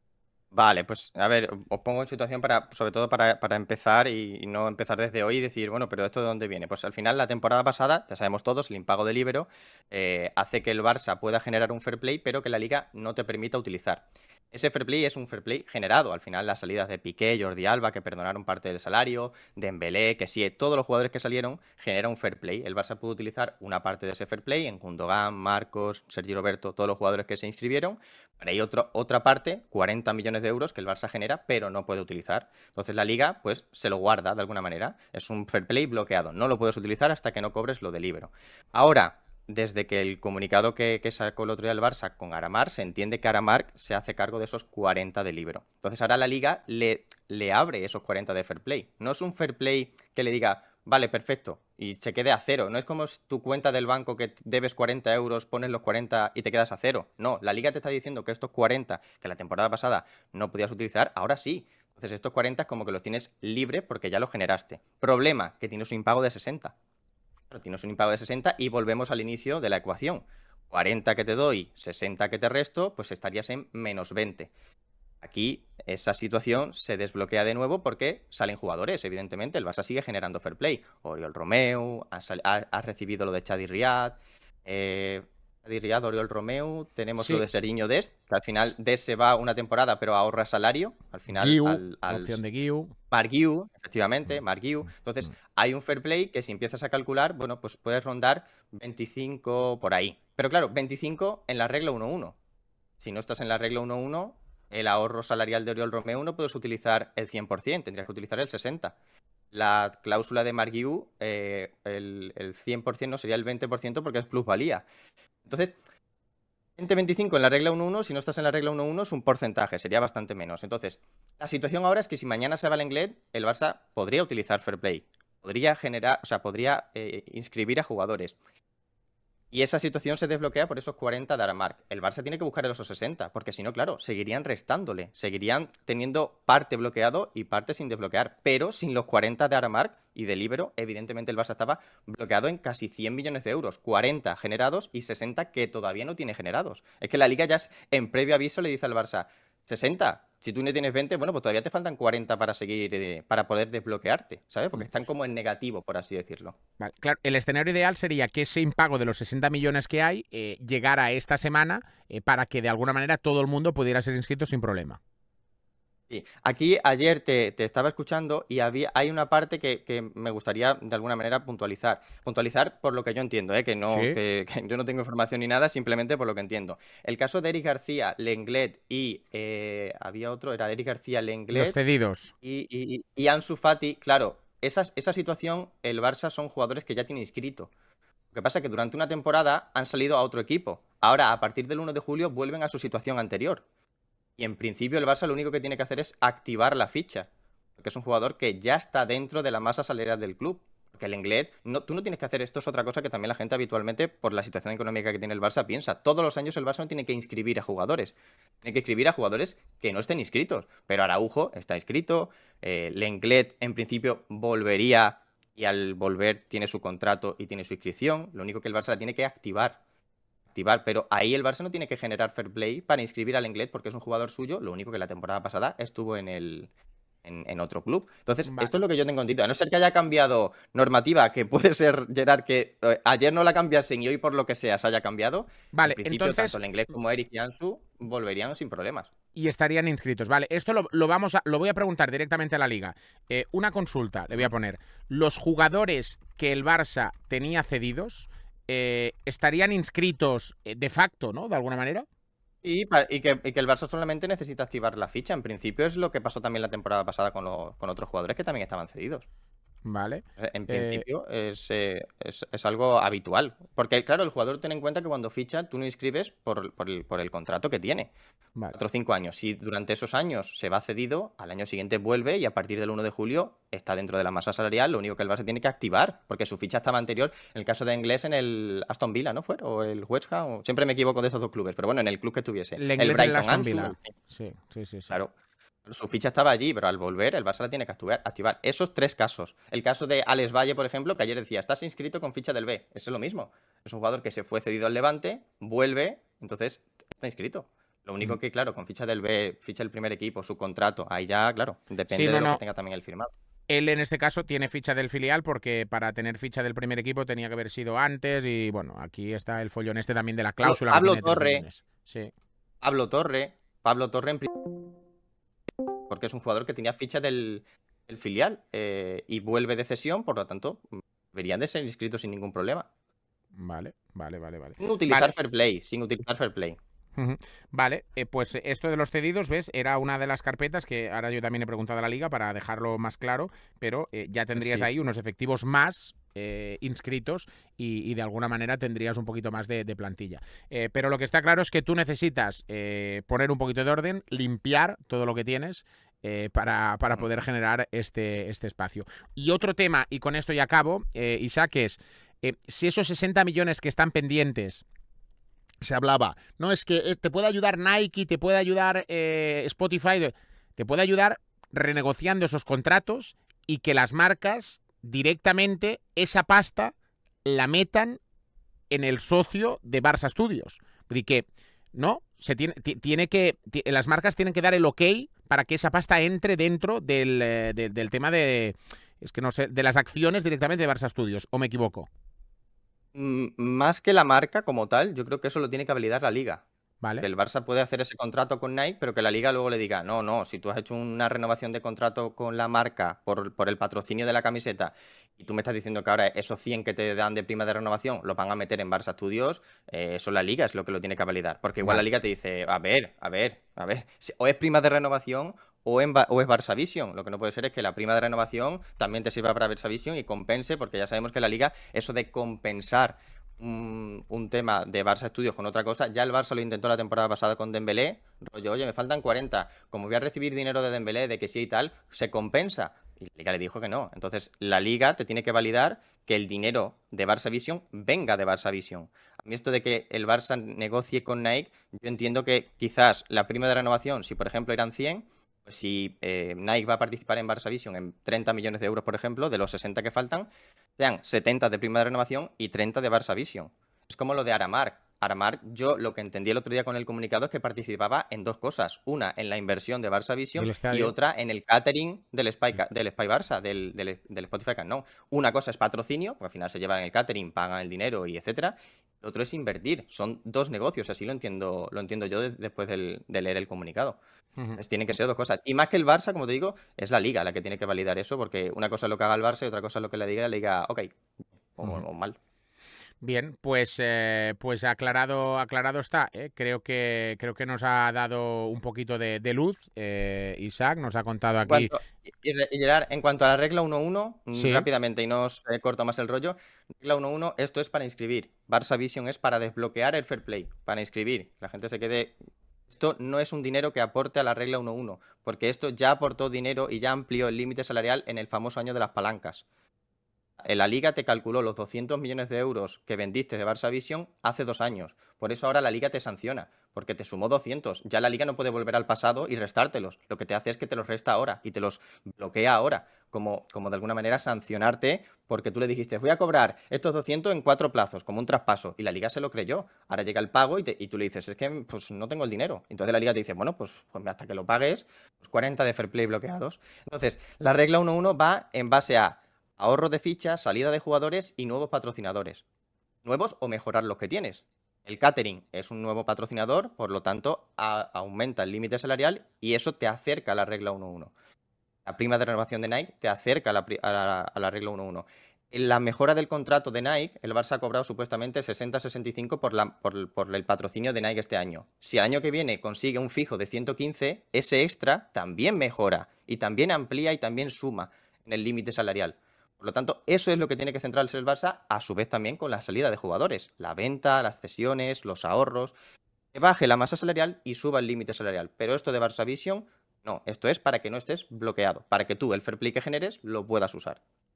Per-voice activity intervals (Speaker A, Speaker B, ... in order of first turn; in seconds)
Speaker A: 0.5-66.7, 67.5-74.5, 75.2-92.4, 93.1-102.4, 103.0-109.0, 109.5-114.8, 115.5-115.8, 116.8-128.4, 129.5-156.6, 166.1-181.8, 182.4-187.7, 188.3-193.6, 194.4-219.8, 220.5-226.7, 227.2-239.1, 252.6-259.3, 260.4-268.1, 268.7-284.1, 285.9-303.3, 310.6-311.6, 312.8-314.5, 316.1-322.9, 324.8-326.8, 334.6-334.9, 383.1-386.6, 387.2-464.2, 464.8-471.1, 471.8-472.4, 481.7-492.4, 492.9-499.6, 500.6-532.6, 533.2-541.3, 542.1-565.9, 566.5-574.2
Speaker B: 91.3-93.0, 156.8-165.0, 173.9-174.2, 181.5-182.3, 228.5-228.7, 235.7-236.6, 239.3-252.1, 259.8-261.1, 282.8-285.2, 302.1-302.6, 303.7-312.3, 323.6-325.3, 327.2-354.8, 355.8-366.9, 367.4-368.2, 368.9-382.1, 450.6-451.1, 473.2-481.9, 484.6-484.9